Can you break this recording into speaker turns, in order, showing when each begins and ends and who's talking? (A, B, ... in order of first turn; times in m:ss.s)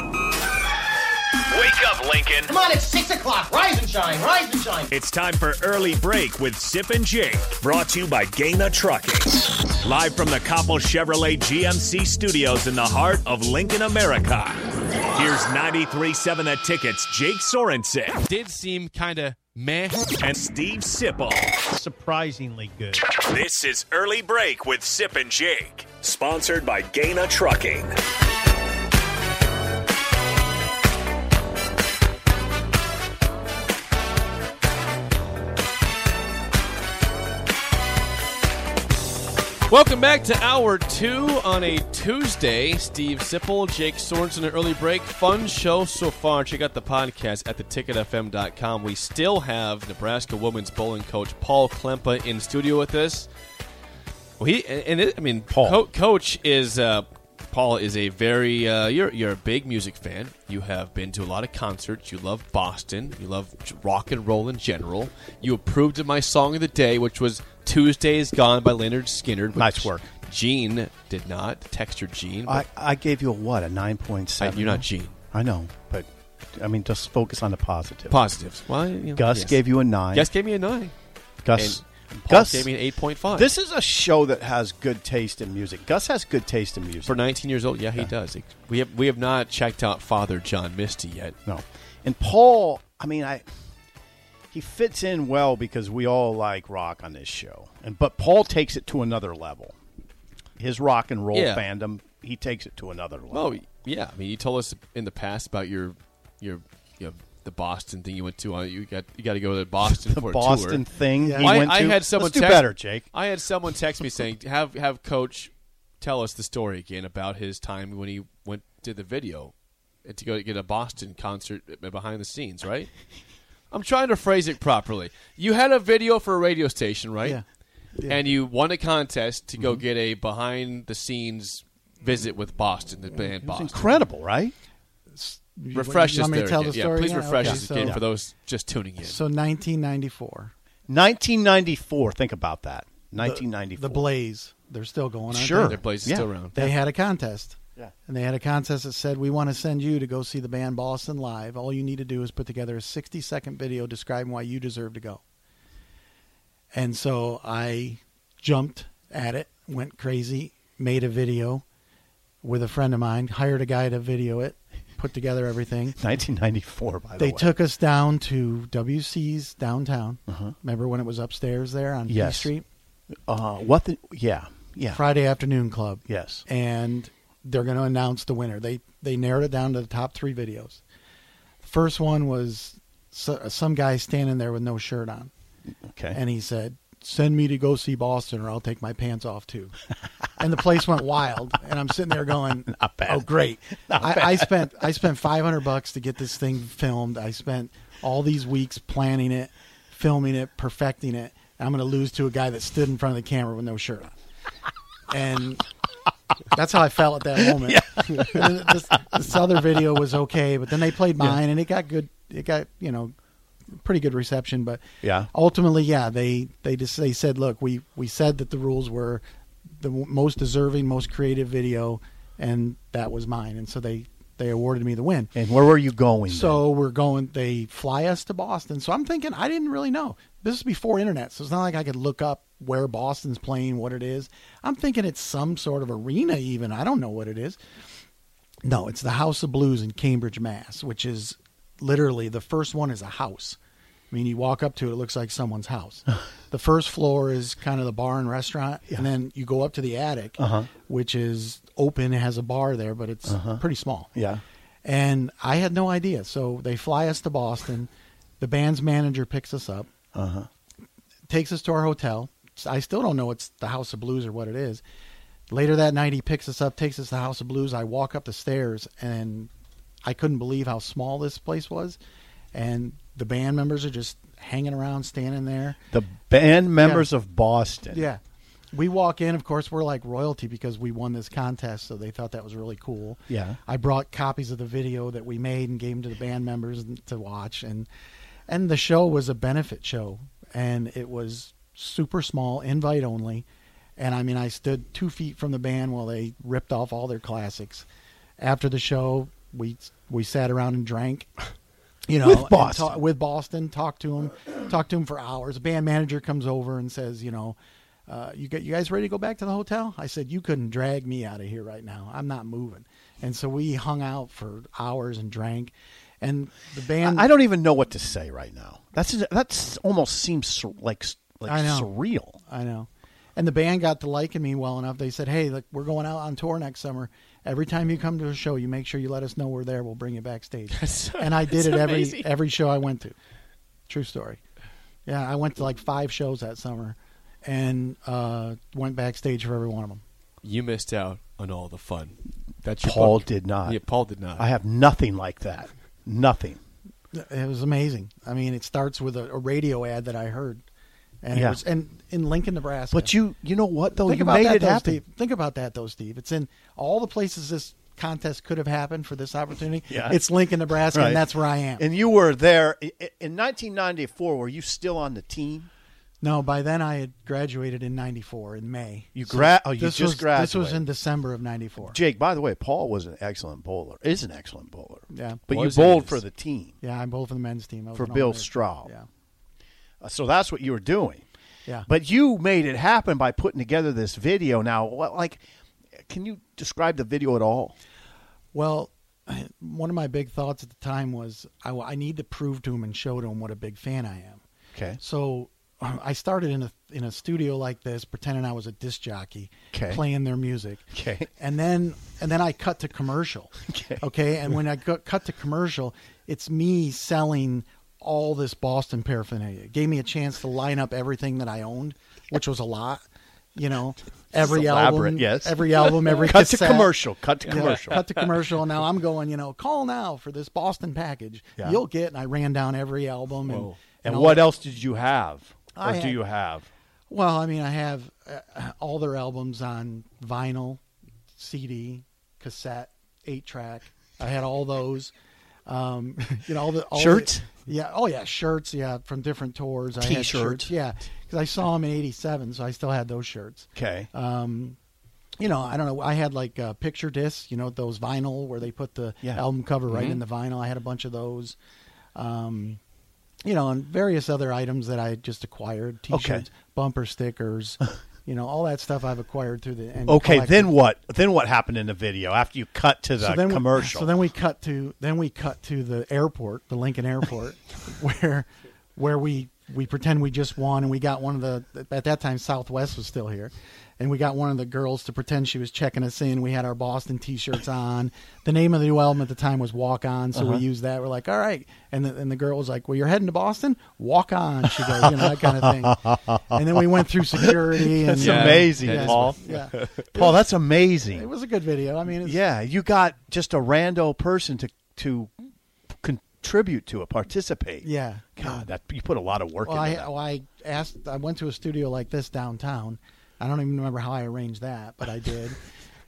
0:01.5-0:02.5 A
0:02.5-0:04.9 B
0:04.9-0:18.2 A
0:18.2-0:20.2 C
0:20.2-0:21.6 A
0:21.6-0:23.0 D
0:23.1-0:28.0 A
0:39.7-0:53.3 C
0:54.4-1:12.6 C
0:55.5-0:55.8 D
1:09.5-1:10.1 D
1:12.4-1:18.2 D
1:14.4-1:15.2 C
1:18.1-1:20.9 C
1:19.2-1:20.3 D
1:21.4-1:22.7 D
1:21.6-1:23.5 C
1:23.3-1:27.2 D
1:27.0-1:31.4 C
1:31.4-1:33.4 D
1:34.5-1:39.8 D
1:40.6-1:43.6 D
1:41.3-1:41.6 C
1:43.3-1:50.8 C
1:50.0-1:53.1 D
1:51.2-1:51.7 E
1:51.4-1:59.5 C
2:00.0-2:02.9 C
2:03.7-2:07.4 C
2:08.0-2:13.9 C
2:13.4-2:14.5 D
2:15.1-2:18.0 E
2:15.7-2:19.2 C
2:17.4-2:18.0 D
2:19.0-2:20.5 E
2:20.9-2:24.0 D
2:23.2-2:25.8 E
2:25.3-2:26.3 D
2:25.5-2:26.7 C
2:26.5-2:35.2 E
2:36.7-2:41.6 E
2:42.4-2:46.0 E
2:46.0-2:47.5 D
2:47.2-2:52.6 E
2:50.3-2:50.5 D
2:52.1-2:52.5 D
2:53.3-2:55.0 D
2:54.9-3:00.8 E
2:56.1-2:56.4 D
3:01.6-3:05.3 E
3:05.9-3:06.2 D
3:06.1-3:09.8 E
3:10.4-3:24.1 E
3:12.7-3:13.2 D
3:13.9-3:14.5 D
3:25.1-3:25.6 E
3:26.5-3:33.1 E
3:27.4-3:28.7 D
3:33.7-3:39.2 E
3:35.0-3:35.3 D
3:39.8-3:45.3 E
3:45.3-3:46.6 D
3:46.3-3:57.6 E
3:58.6-4:03.6 E
4:04.1-4:14.1 E
4:10.4-4:10.7 D
4:13.3-4:13.6 D
4:14.1-4:14.4 D
4:14.8-4:19.9 E
4:20.1-4:20.5 D
4:21.3-4:24.8 E
4:25.5-4:29.5 E
4:30.0-4:32.0 E
4:32.5-4:35.8 E
4:35.9-4:38.0 D
4:36.8-4:37.1 E
4:37.9-4:38.2 E
4:38.7-4:47.9 E
4:43.3-4:43.6 D
4:48.5-4:53.4 E
4:54.0-4:57.8 E
4:58.4-5:01.3 E
5:02.0-5:17.3 E
5:02.2-5:03.0 D
5:17.0-5:22.4 D
5:21.5-5:21.9 E
5:22.4-5:33.2 E
5:30.7-5:32.3 C
5:33.9-5:34.4 E
5:35.0-5:40.0 E
5:40.4-5:44.5 C
5:42.8-5:43.8 D
5:44.4-5:46.6 D
5:47.1-5:50.6 E
5:51.2-5:53.1 E
5:51.3-5:51.6 D
5:52.9-5:55.0 D
5:54.0-6:01.8 E
5:59.9-6:00.2 D
6:00.9-6:01.2 D
6:01.8-6:05.7 D
6:06.2-6:12.0 E
6:09.1-6:10.8 D
6:11.9-6:16.7 D
6:15.1-6:15.4 E
6:15.5-6:16.2 C
6:16.8-6:19.1 E
6:17.9-6:18.9 D
6:20.0-6:21.2 D
6:21.9-6:25.4 D
6:26.0-6:27.7 D
6:28.5-6:34.4 E
6:34.7-6:35.0 D
6:35.0-6:40.8 E
6:39.7-6:40.0 D
6:40.9-6:41.3 D
6:41.4-6:53.0 E
6:43.6-6:44.0 D
6:53.5-7:04.5 E
6:54.3-6:58.0 D
6:57.5-6:58.0 C
7:03.5-7:03.8 C
7:04.0-7:06.7 D
7:05.7-7:06.2 E
7:07.1-7:10.8 E
7:11.4-7:15.1 E
7:15.6-7:24.8 E
7:16.9-7:17.5 D
7:20.0-7:20.7 D
7:23.7-7:24.1 D
7:25.4-7:31.6 E
7:29.9-7:30.2 C
7:32.1-7:32.8 E
7:33.4-7:40.7 E
7:36.1-7:36.4 D
7:40.1-7:44.1 D
7:43.2-8:10.4 E
8:00.3-8:00.6 D
8:04.8-8:09.4 D
8:08.2-8:10.0 C
8:10.1-8:11.3 D
8:11.1-8:12.4 E
8:12.2-8:15.3 D
8:15.9-8:20.1 D
8:17.8-8:18.7 E
8:19.6-8:25.6 E